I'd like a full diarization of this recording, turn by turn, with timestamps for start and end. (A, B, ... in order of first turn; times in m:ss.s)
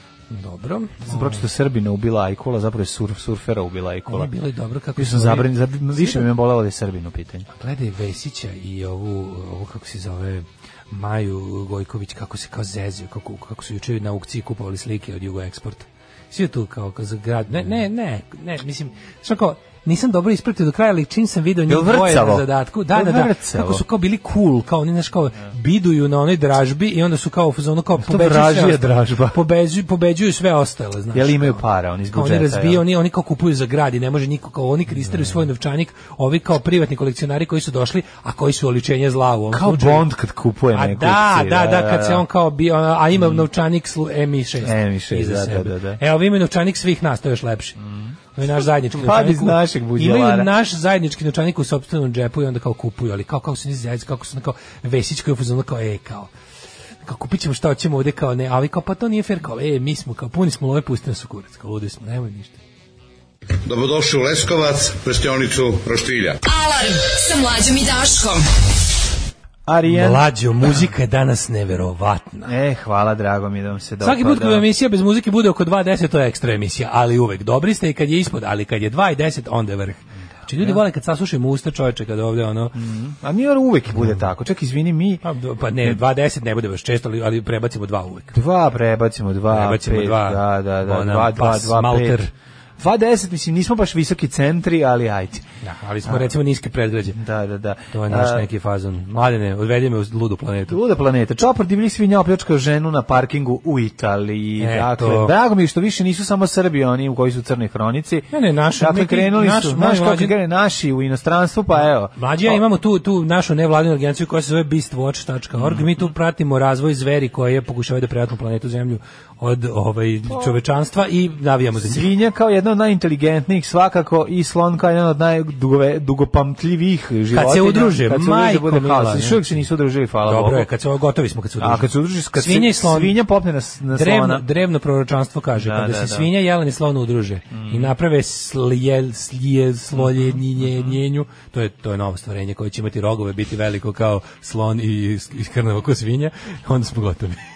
0:00.3-0:01.4 A
0:01.1-0:04.3 B
0:04.1-0:06.3 A
0:05.0-0:07.5 B
0:07.6-0:31.6 A
0:21.7-0:23.8 B
0:28.0-0:29.4 B
0:31.1-0:32.8 B
0:32.1-0:40.1 A
0:39.5-0:42.2 B
0:40.7-0:47.8 A
0:43.2-0:43.5 B
0:44.6-0:46.0 B
0:48.4-0:56.3 A
0:48.9-0:50.5 B
0:57.0-1:02.6 A
1:03.7-1:06.4 C
1:06.4-1:08.5 D
1:09.7-1:10.2 B
1:09.9-1:12.5 A
1:12.5-1:14.6 B
1:14.0-1:22.8 A
1:20.6-1:20.8 B
1:22.8-1:25.2 B
1:25.2-1:28.4 A
1:28.3-1:32.2 B
1:29.5-1:32.3 A
1:32.8-1:35.4 B
1:35.6-1:37.2 A
1:37.1-1:38.5 B
1:37.9-1:40.8 A
1:40.7-1:52.6 B
1:44.6-1:45.3 A
1:48.3-1:50.3 A
1:52.1-2:02.0 A
1:55.6-1:56.0 B
2:00.3-2:00.6 B
2:01.8-2:10.7 B
2:07.3-2:09.4 A
2:10.2-2:13.2 A
2:11.6-2:14.4 B
2:13.9-2:27.4 A
2:15.6-2:16.3 B
2:17.5-2:17.9 B
2:20.0-2:20.9 B